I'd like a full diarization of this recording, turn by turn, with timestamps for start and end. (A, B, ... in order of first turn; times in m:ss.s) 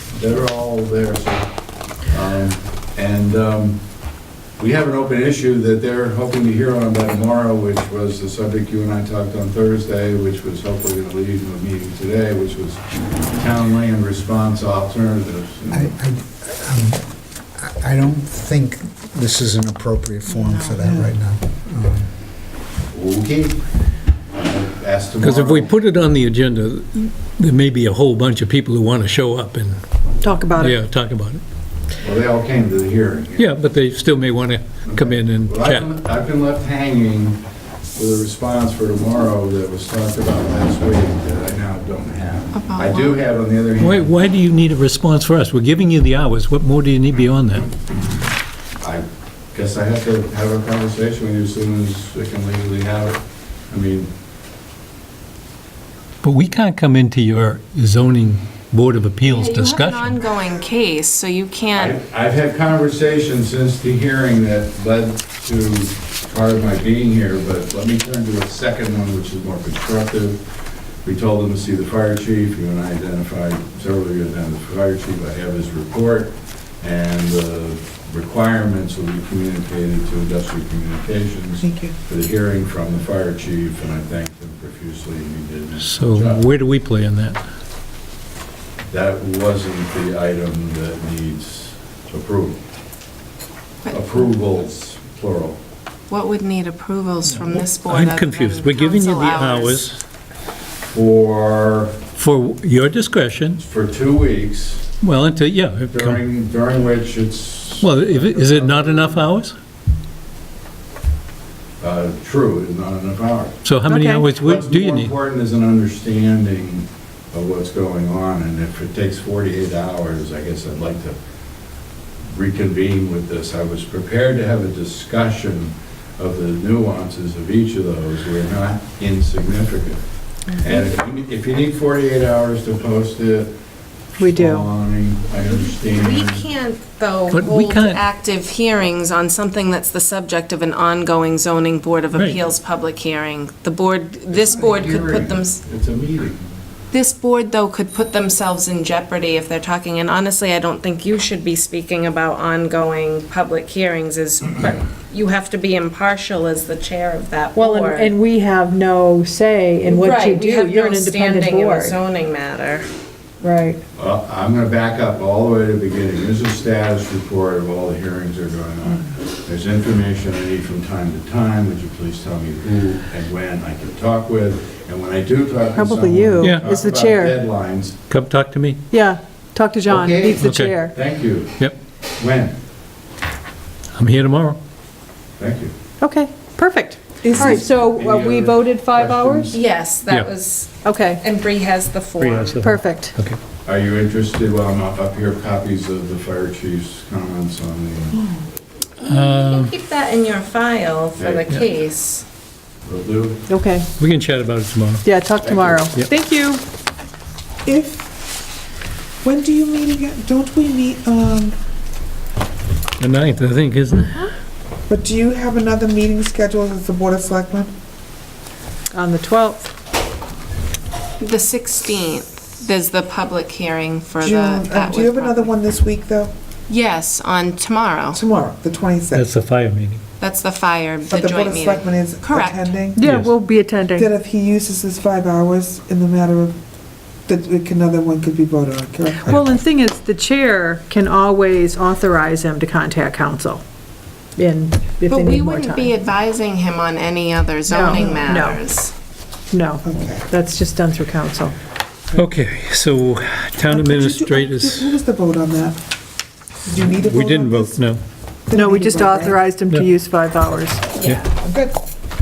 0:00.1-0:01.5 A
0:02.0-0:03.8 A
0:04.6-0:15.9 A
0:15.7-0:17.0 B
0:17.5-0:22.1 B
0:20.2-0:20.8 C
0:22.9-0:23.6 A
0:24.3-0:25.7 A
0:25.2-0:29.8 D
0:30.2-0:30.8 E
0:30.6-0:31.4 D
0:32.0-0:33.6 A
0:33.4-0:35.9 D
0:34.8-0:37.4 A
0:37.9-0:44.1 A
0:42.5-0:43.2 C
0:43.8-0:47.7 D
0:48.8-0:53.2 A
0:53.7-0:54.1 A
0:56.2-1:00.2 D
0:59.3-1:02.0 C
1:01.7-1:10.4 A
1:11.0-1:26.5 A
1:21.6-1:22.0 F
1:25.8-1:27.4 D
1:28.9-1:32.6 A
1:33.8-1:34.2 C
1:33.9-1:35.6 A
1:36.1-1:39.8 C
1:37.3-1:40.0 D
1:40.9-1:41.9 A
1:42.2-1:43.6 D
1:43.6-1:44.9 A
1:45.0-1:46.2 D
1:45.9-1:49.3 A
1:47.8-1:49.6 D
1:51.8-1:53.6 A
1:53.6-1:55.1 D
1:53.8-1:54.3 E
1:54.4-2:01.2 A
2:02.3-2:10.0 A
2:10.6-2:13.5 A
2:14.2-2:14.7 E
2:14.2-2:16.4 A
2:15.4-2:25.6 C
2:17.3-2:18.0 D
2:24.3-2:26.4 A
2:26.9-2:38.1 C
2:37.5-2:42.0 E
2:39.8-2:42.9 C
2:43.4-2:43.8 E
2:43.9-2:58.0 A
2:55.7-2:57.4 E
2:58.1-2:58.8 D
2:58.9-3:00.9 E
2:59.9-3:01.6 A
3:00.4-3:00.9 D
3:02.2-3:02.6 A
3:04.0-3:04.6 D
3:05.4-3:05.7 A
3:06.0-3:09.5 E
3:07.2-3:07.5 F
3:07.3-3:09.6 A
3:09.5-3:12.6 C
3:10.8-3:11.2 E
3:12.2-3:13.4 D
3:12.6-3:13.2 E
3:13.6-3:18.1 A
3:19.0-3:19.7 D
3:19.0-3:22.2 C
3:21.2-3:21.7 A
3:22.8-3:23.4 A
3:23.5-3:23.9 E
3:24.0-3:25.0 D
3:25.0-3:26.6 E
3:25.4-3:25.9 A
3:27.6-3:28.1 F
3:29.2-3:31.6 F
3:33.0-3:34.3 D
3:34.9-3:37.7 F
3:38.9-3:39.7 E
3:41.2-3:45.4 C
3:44.2-3:46.3 F
3:46.7-3:48.2 C
3:48.1-3:49.2 F
3:49.1-3:50.0 D
3:50.2-3:52.7 C
3:51.1-3:53.0 F
3:52.9-3:54.1 E
3:53.0-3:53.3 D
3:54.0-3:56.6 F
3:57.3-3:59.2 F
3:59.2-4:03.6 E
4:04.4-4:05.9 E
4:05.0-4:08.9 C
4:07.7-4:08.6 E
4:09.5-4:11.5 E
4:09.8-4:10.2 F
4:12.1-4:14.9 D
4:13.7-4:15.8 F
4:16.6-4:17.8 F
4:17.0-4:18.0 D
4:18.5-4:19.4 F
4:18.5-4:20.9 E
4:21.4-4:21.8 F